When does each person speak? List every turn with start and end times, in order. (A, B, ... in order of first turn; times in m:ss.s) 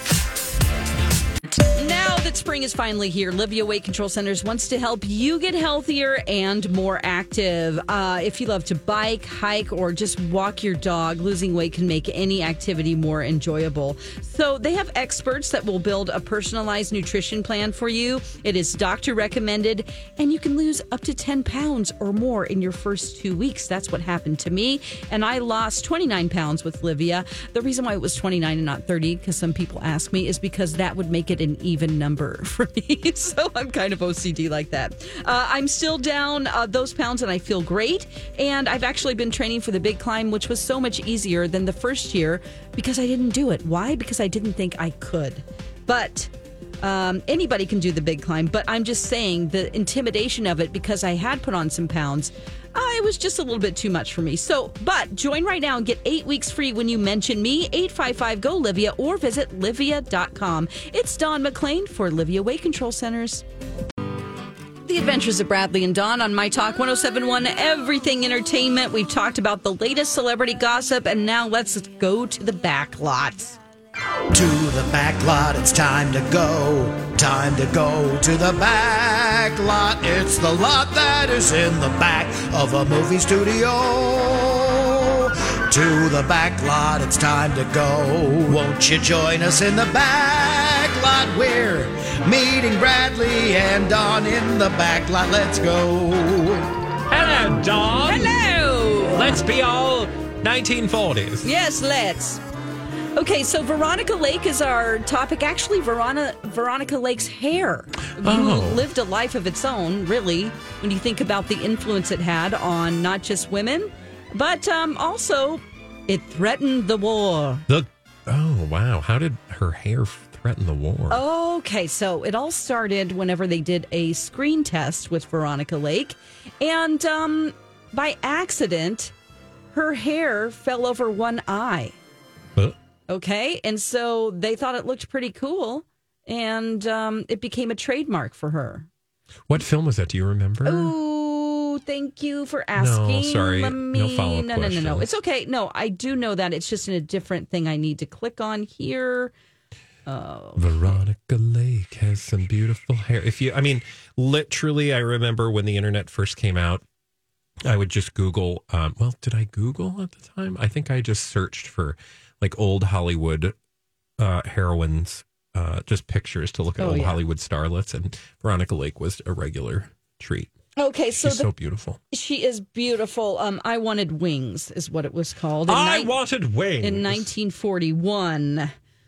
0:01.7-0:46.3 A
0:46.8-1:03.4 A
1:04.9-1:13.6 A
1:14.3-1:36.7 B
1:37.1-1:38.4 C
1:38.0-1:39.4 A
1:39.1-1:41.5 C
1:41.4-1:42.4 A
1:43.1-1:57.6 A
1:48.2-1:48.9 C
1:57.7-2:01.2 C
2:01.1-2:09.1 A
2:09.7-2:12.0 A
2:13.1-2:18.9 A
2:19.5-2:20.9 C
2:20.6-2:29.3 A
2:22.8-2:25.1 C
2:30.1-2:31.0 A
2:30.6-2:36.8 C
2:37.6-2:43.6 C
2:44.2-2:50.5 C
2:46.8-2:47.2 A
2:50.8-2:51.5 A
2:51.2-2:52.0 C
2:52.1-2:56.1 A
2:55.7-2:57.3 C
2:56.8-2:58.7 A